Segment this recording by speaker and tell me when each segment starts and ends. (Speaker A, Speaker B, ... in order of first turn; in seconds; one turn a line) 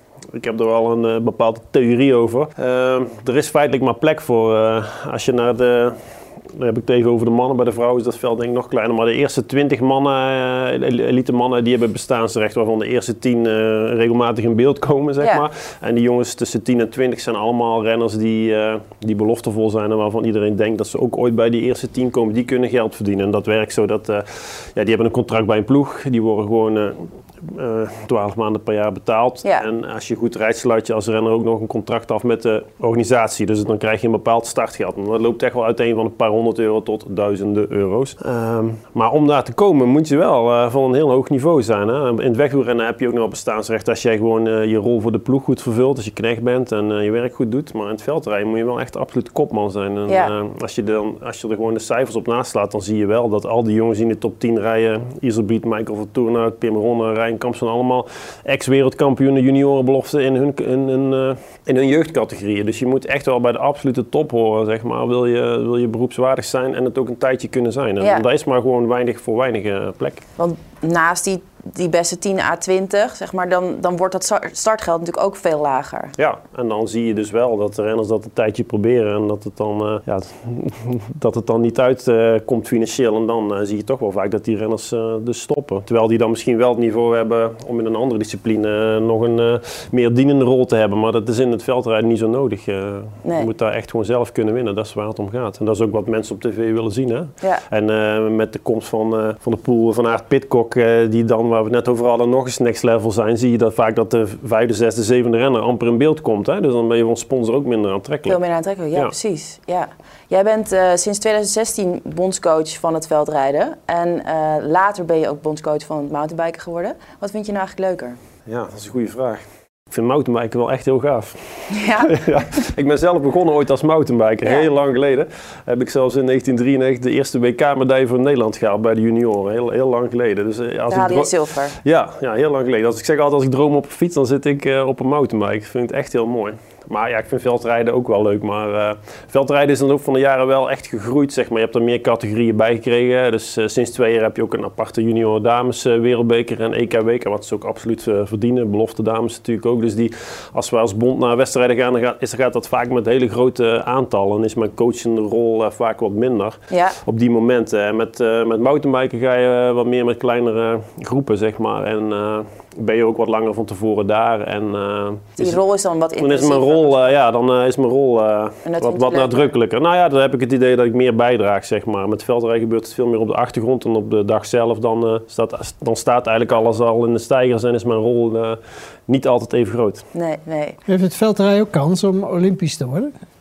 Speaker A: 0.3-70.2
Speaker B: 68.0-68.2
Speaker B: 70.4-76.1
Speaker A: 76.2-108.4
Speaker B: 93.2-93.5
Speaker B: 108.3-118.2
Speaker A: 118.5-165.6
Speaker B: 121.7-122.1
Speaker B: 130.9-131.8
Speaker B: 156.7-156.9
Speaker B: 165.4-167.0
Speaker A: 166.2-180.1
Speaker B: 168.7-169.5
Speaker B: 180.1-180.8
Speaker C: 180.9-183.1